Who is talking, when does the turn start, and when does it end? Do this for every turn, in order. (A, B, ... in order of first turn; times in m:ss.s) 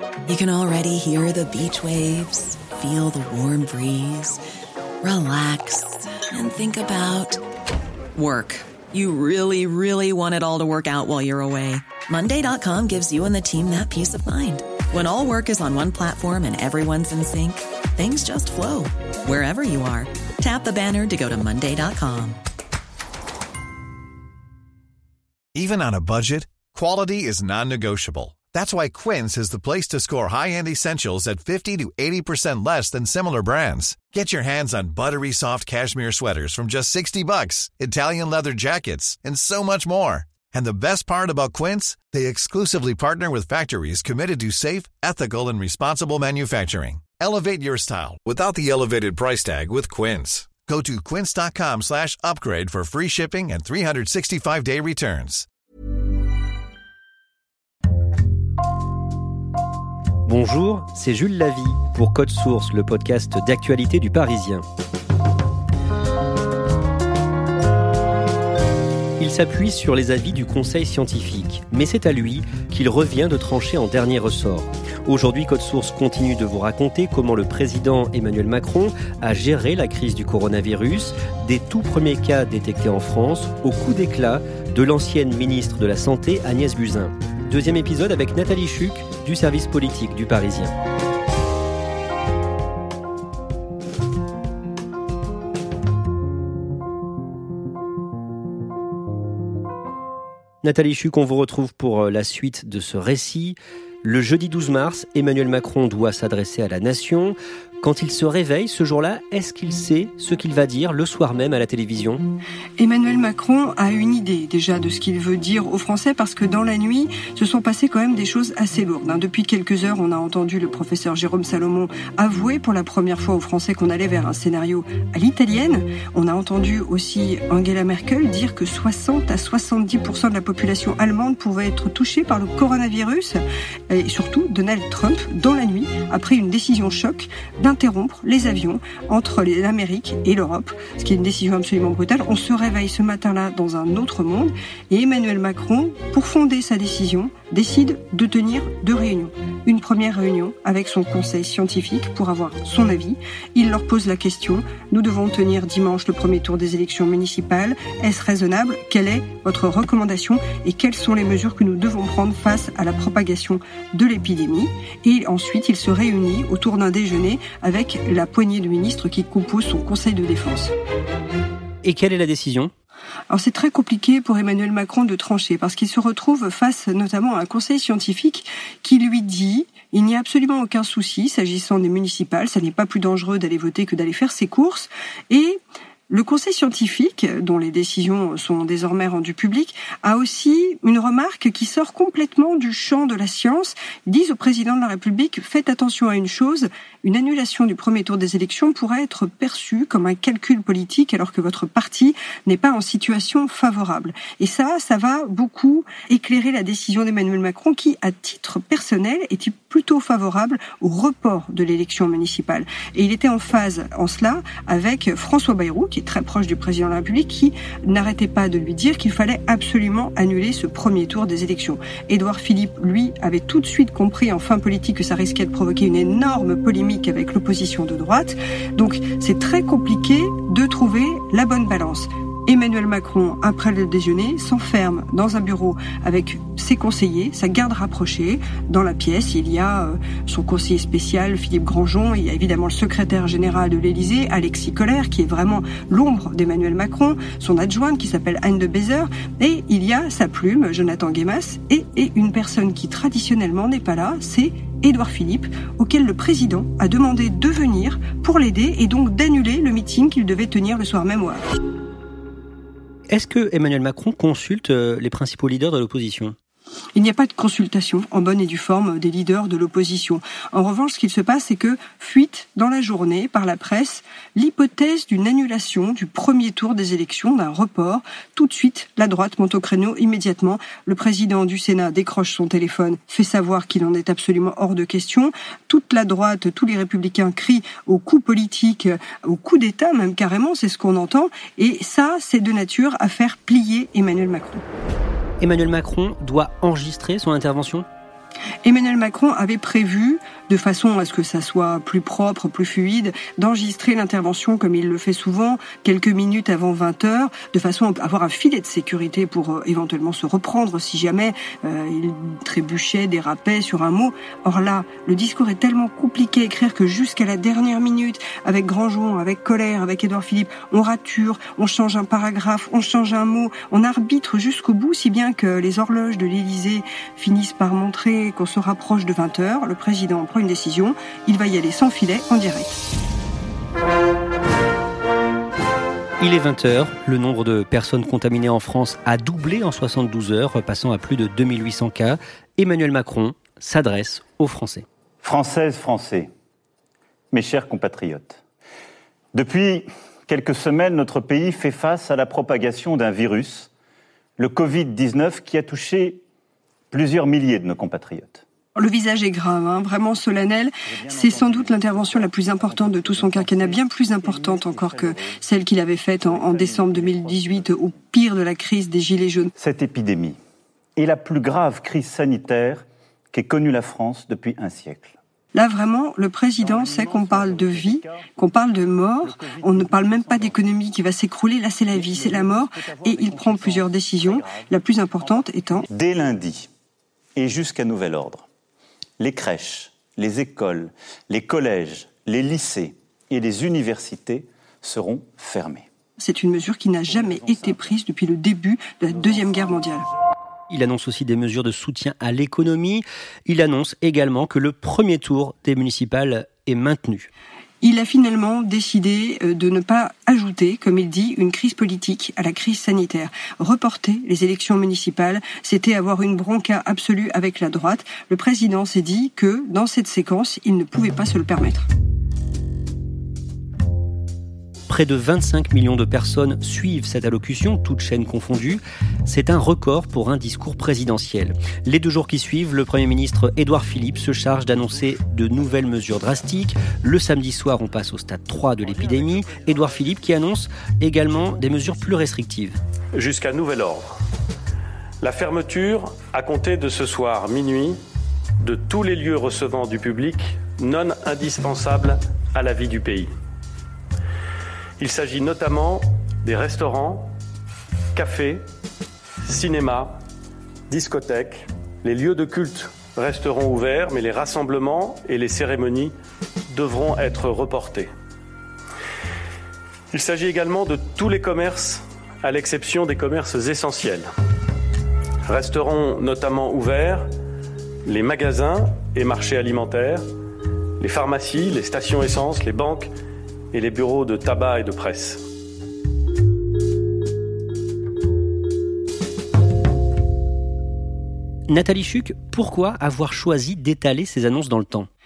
0:00.2-0:04.4 A
0:05.0-0:07.4 A
0:08.1-0:22.4 A
0:25.5-0:55.4 B
1:00.2-1:04.6 C
1:09.2-1:30.7 C
1:40.6-1:52.2 C
1:52.8-2:50.7 D
2:51.8-2:52.7 C
2:53.3-4:21.4 D
4:23.1-4:26.3 C
4:26.9-4:54.6 D
4:55.4-4:57.8 C
4:58.6-5:32.8 D
5:36.2-5:44.8 C
5:45.2-5:46.3 E
5:47.3-5:48.4 E
5:49.3-5:53.7 E
5:54.4-5:56.2 E
5:56.9-5:58.4 E
5:58.8-6:09.5 D
6:00.9-6:05.4 E
6:06.2-6:08.0 E
6:09.6-6:10.4 E
6:11.0-6:15.1 E
6:15.5-6:25.9 D
6:16.6-6:18.2 E
6:19.2-6:20.5 E
6:21.9-6:24.7 E
6:25.2-6:26.7 E
6:27.4-6:28.4 E
6:29.2-6:35.8 E
6:36.2-6:40.1 D
6:40.7-6:47.3 C
6:47.8-7:01.9 D
7:04.9-7:22.8 C
7:23.2-7:24.1 F
7:25.2-7:28.0 F
7:28.6-7:33.3 F
7:35.0-7:37.3 F
7:38.1-7:38.6 F
7:39.4-7:40.1 F
7:40.9-7:46.1 F
7:46.7-7:48.1 F
7:50.1-7:54.3 F
7:55.4-7:57.3 F
7:58.0-8:00.2 F
8:01.0-8:03.1 F
8:03.7-8:05.4 F
8:11.7-8:15.1 C